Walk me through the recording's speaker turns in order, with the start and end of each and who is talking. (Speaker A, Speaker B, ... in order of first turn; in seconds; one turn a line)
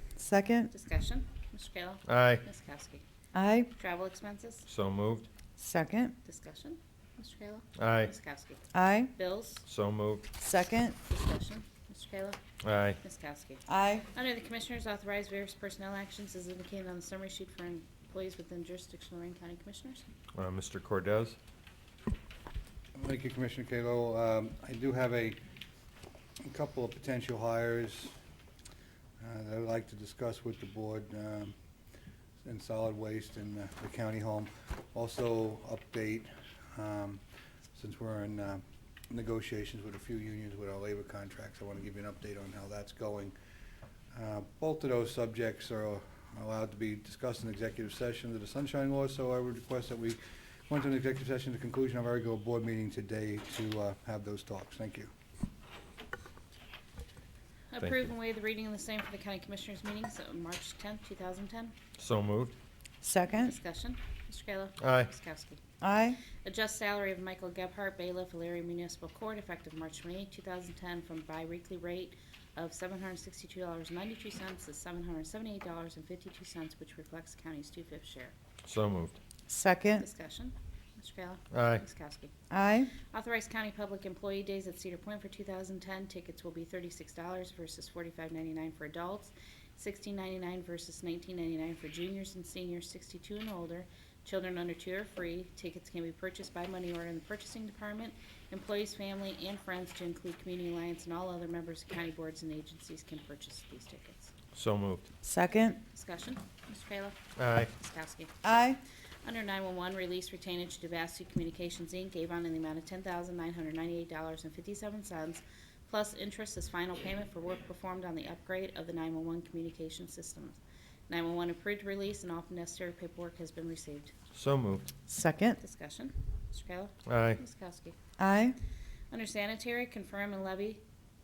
Speaker A: 0.2-0.7
Speaker B: 0.7-3.0
Speaker C: 2.1-2.4
Speaker A: 3.3-3.7
Speaker B: 3.7-4.7
Speaker C: 4.7-5.3
Speaker A: 5.6-6.1
Speaker B: 6.2-9.6
Speaker C: 7.8-8.1
Speaker A: 8.7-9.1
Speaker C: 9.7-10.2
Speaker A: 10.4-10.9
Speaker B: 11.0-12.4
Speaker C: 12.6-13.0
Speaker B: 13.0-20.0
Speaker A: 13.7-14.0
Speaker C: 20.3-21.4
Speaker D: 22.9-25.4
Speaker D: 26.4-28.1
Speaker D: 29.2-31.5
Speaker D: 32.4-37.2
Speaker D: 37.7-43.3
Speaker D: 44.1-55.1
Speaker B: 57.7-61.8
Speaker C: 62.0-62.5
Speaker A: 63.0-63.5
Speaker B: 63.3-65.6
Speaker C: 64.8-65.1
Speaker A: 65.8-66.2
Speaker B: 66.3-78.3
Speaker C: 78.7-79.2
Speaker A: 79.5-80.0
Speaker B: 80.0-82.3
Speaker C: 81.5-81.8
Speaker A: 82.5-82.9
Speaker B: 83.1-104.3
Speaker C: 104.5-105.0
Speaker A: 105.2-105.8
Speaker B: 105.9-107.2
Speaker C: 107.4-107.7
Speaker B: 107.7-108.3
Speaker A: 108.4-108.8
Speaker B: 109.2-124.1
Speaker C: 124.3-124.9
Speaker A: 125.1-125.6
Speaker B: 125.6-128.0
Speaker C: 127.0-127.4
Speaker A: 128.2-128.6
Speaker B: 129.1-130.8